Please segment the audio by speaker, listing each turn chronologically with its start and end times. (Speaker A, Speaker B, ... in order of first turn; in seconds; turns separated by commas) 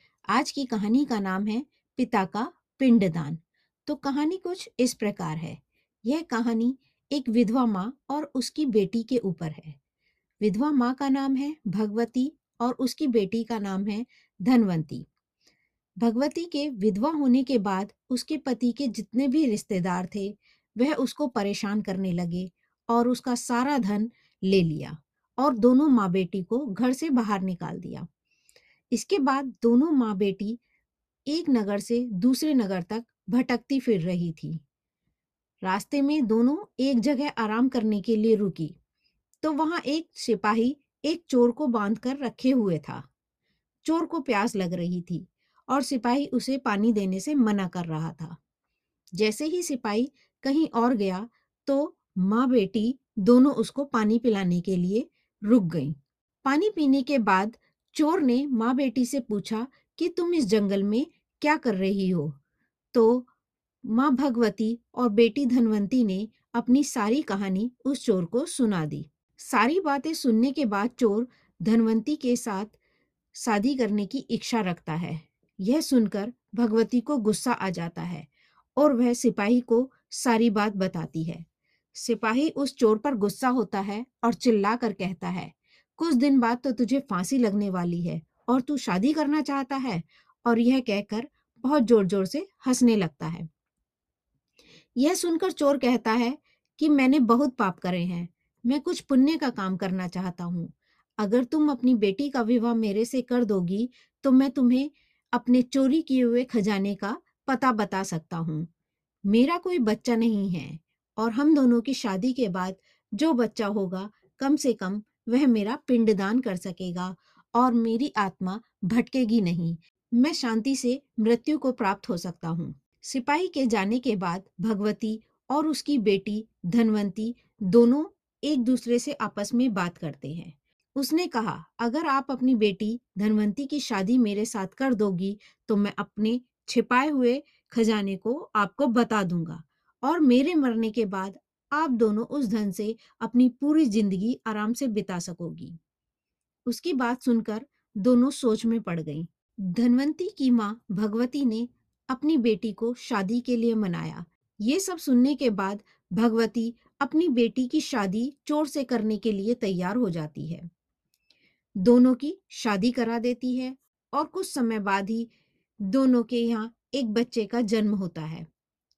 Speaker A: 0.3-9.8, Speaker A: 10.4-15.1, Speaker A: 16.0-28.1, Speaker A: 28.9-30.6, Speaker A: 31.3-34.6, Speaker A: 35.6-38.7, Speaker A: 39.4-43.0, Speaker A: 43.8-48.4, Speaker A: 49.2-62.4, Speaker A: 62.9-63.3, Speaker A: 63.9-72.7, Speaker A: 73.3-93.5, Speaker A: 95.0-108.7, Speaker A: 109.3-145.8, Speaker A: 146.7-160.7, Speaker A: 161.8-165.3, Speaker A: 165.8-168.5